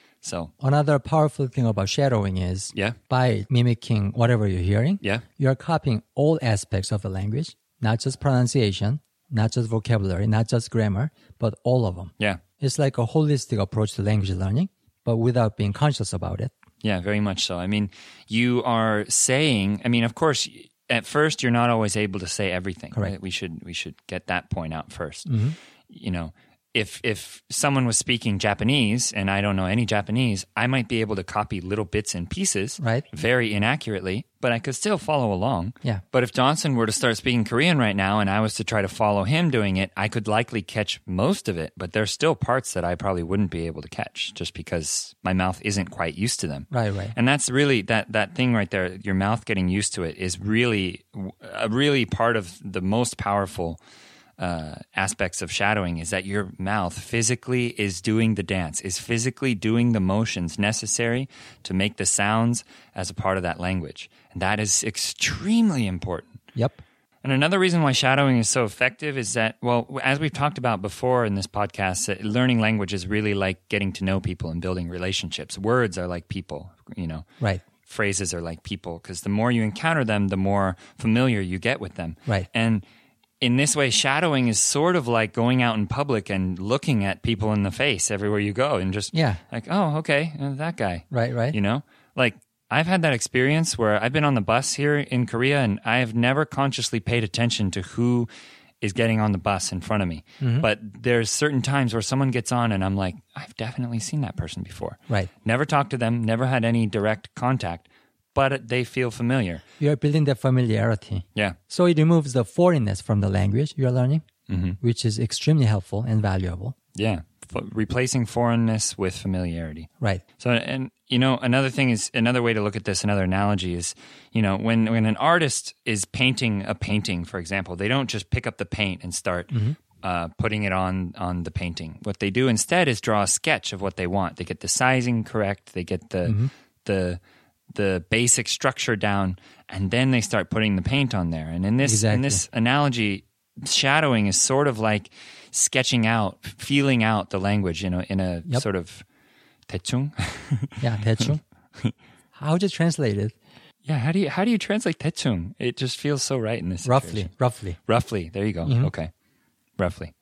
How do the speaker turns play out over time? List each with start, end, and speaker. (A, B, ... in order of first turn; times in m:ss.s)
0:00.2-0:00.5 A
0:00.6-0:16.5 B
0:16.8-0:25.3 A
0:25.3-0:25.6 B
0:25.9-0:53.8 A
0:32.8-0:33.0 B
0:46.7-0:47.2 B
0:54.4-1:06.4 A
1:06.6-1:06.8 B
1:07.2-1:17.3 A
1:17.8-1:22.8 A
1:23.4-1:38.3 A
1:29.1-1:29.4 B
1:31.1-1:31.6 B
1:38.8-1:49.6 A
1:40.4-1:40.7 B
1:49.8-1:54.2 B
1:54.5-1:54.8 A
1:54.8-1:56.8 B
1:57.0-2:17.2 A
2:09.5-2:09.8 B
2:16.2-2:16.5 B
2:17.7-2:29.0 A
2:21.8-2:22.4 B
2:29.7-2:32.0 A
2:30.8-2:31.4 B
2:32.3-2:33.4 B
2:33.8-2:37.3 A
2:36.8-2:37.8 B
2:37.9-2:39.1 A
2:38.6-2:38.9 B
2:39.8-2:40.1 A